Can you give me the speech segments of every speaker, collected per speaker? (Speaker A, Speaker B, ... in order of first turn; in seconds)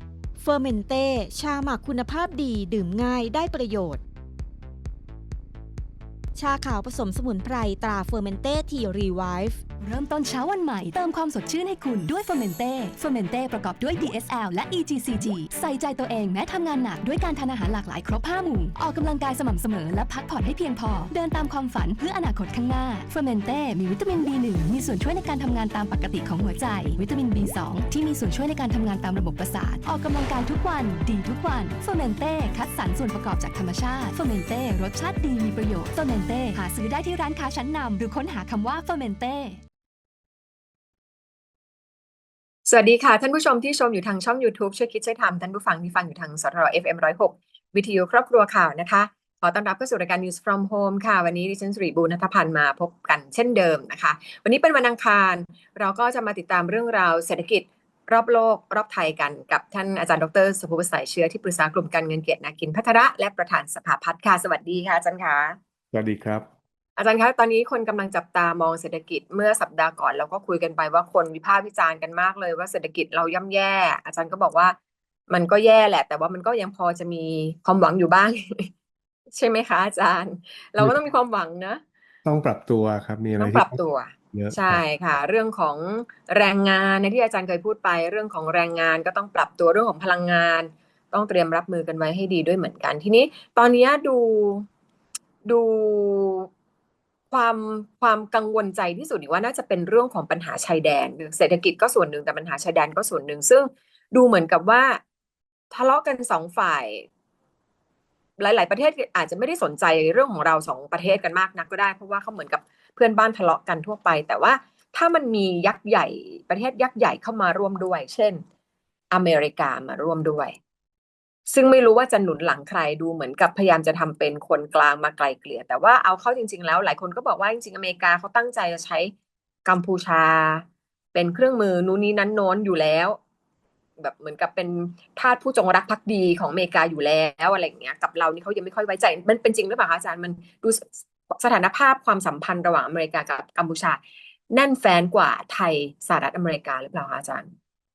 Speaker A: 0.4-4.0, 6.3-9.6
Speaker B: 9.8-39.6
Speaker C: 42.7-65.6, 67.0-74.8, 75.3-78.7, 79.3-81.8, 83.4-94.6, 95.5-96.5, 97.3-105.0, 105.7-107.1, 108.4-118.4, 119.1-120.5, 121.5-129.1, 129.6-133.2, 134.0-147.5
Speaker D: 65.9-66.5, 80.8-81.0, 82.2-83.8, 84.3-84.8